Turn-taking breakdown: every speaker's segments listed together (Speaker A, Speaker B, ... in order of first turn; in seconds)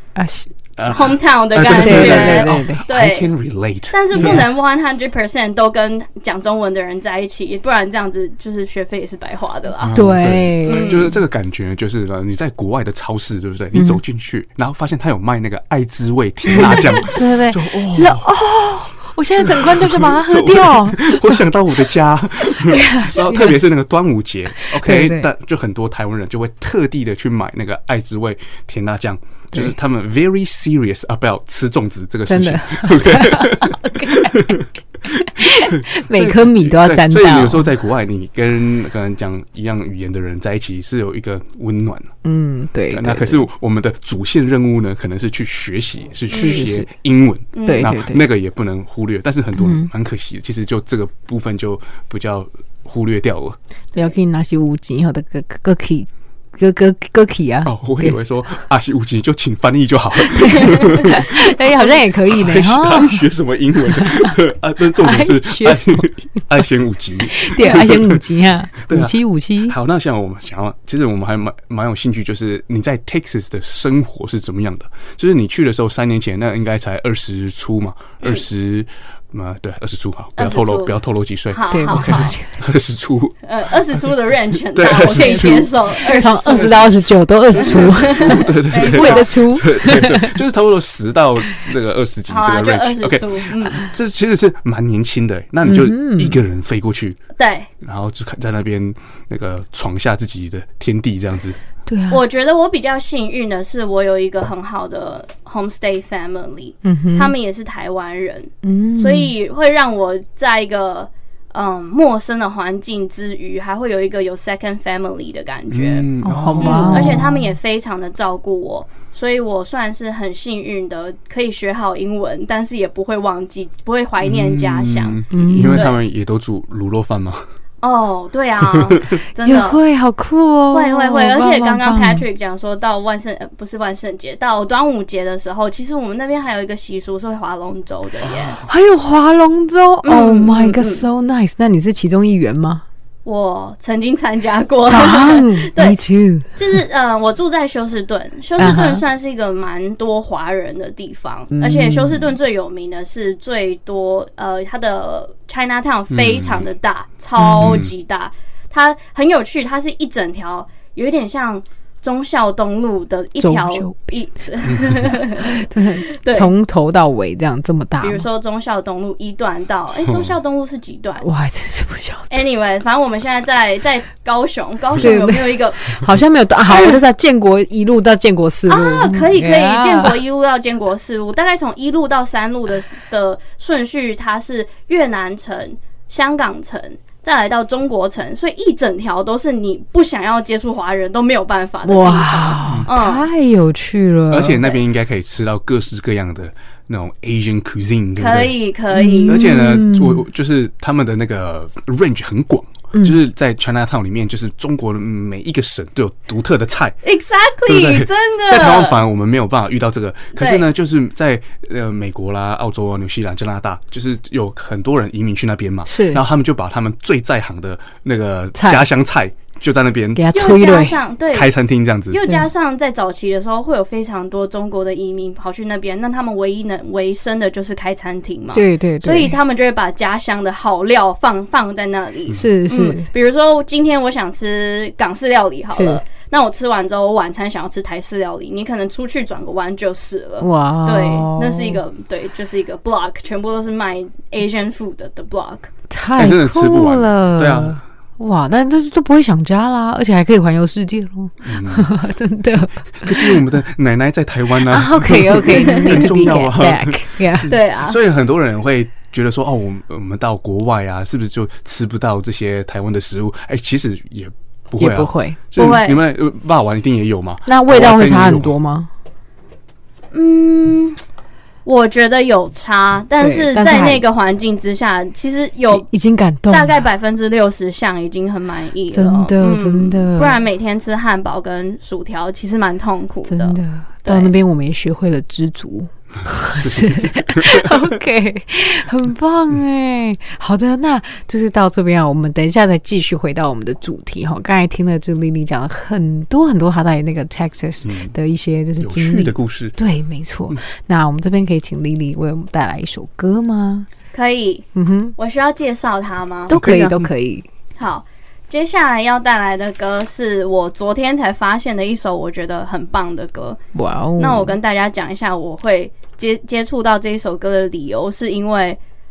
Speaker A: 0.1-0.5, 1.6-2.8, 4.1-4.4, 9.9-11.0, 13.7-14.0, 16.5-21.4, 22.5-23.7, 24.7-25.3, 32.3-34.6, 35.1-37.7, 42.2-43.5, 46.3-46.9, 47.6-48.2, 49.6-49.9, 54.0-58.2, 60.2-63.2, 63.9-64.3, 65.0-66.4, 67.3-69.8, 81.7-82.5, 85.1-90.3, 95.6-96.4, 101.9-102.2, 106.8-107.3, 108.6-109.3, 116.2-117.5, 125.3-125.8, 129.4-132.2, 138.7-142.8, 144.9-146.5, 148.6-149.0, 151.5-152.3, 157.4-157.8, 163.4-163.9, 165.4-168.2, 171.2-172.3, 175.0-180.2, 191.8-194.6, 198.9-200.2, 215.9-216.2, 218.5-218.8, 220.2-221.0, 228.5-229.3, 232.3-233.1, 235.7-236.0, 240.4-241.8, 245.9-253.4, 254.7-257.5, 264.8-265.4, 267.5-268.9, 273.2-274.0, 275.7-276.8, 278.9-280.4, 283.3-303.9, 304.7-305.1, 306.5-307.5, 313.7-314.5
Speaker B: 0.8-4.5, 9.8-18.2, 19.3-42.1, 42.9-53.6, 57.6-61.3, 62.2-68.2, 68.8-83.4, 84.7-85.7, 87.5-97.2, 97.8-101.6, 115.7-117.2, 124.2-127.5, 128.6-129.2, 138.2-138.7, 156.1-156.7, 157.6-157.9, 164.7-165.1, 170.1-170.3, 194.3-198.5, 199.2-207.0, 207.7-220.5, 221.3-222.2, 246.2-247.8, 251.4-251.9, 253.0-268.5, 286.6-287.9, 297.8-298.1, 298.8-299.8, 306.5-307.1
Speaker C: 0.9-3.3, 3.9-9.9, 10.6-11.1, 46.3-46.6, 47.5-47.9, 80.4-80.9, 81.5-82.3, 83.4-86.8, 87.6-89.3, 92.3-93.8, 97.4-97.7, 102.1-126.0, 127.8-129.8, 130.7-138.6, 140.0-141.0, 143.2-146.0, 146.6-166.5, 168.0-171.2, 172.3-175.9, 176.7-177.0, 178.7-193.2, 198.2-199.4, 207.0-209.0, 210.4-210.7, 220.3-221.5, 222.1-245.7, 257.5-258.0, 265.6-266.0, 270.1-271.0, 271.6-275.9, 276.5-284.3, 304.1-304.6, 305.2-306.5, 307.8-313.6, 314.2-318.8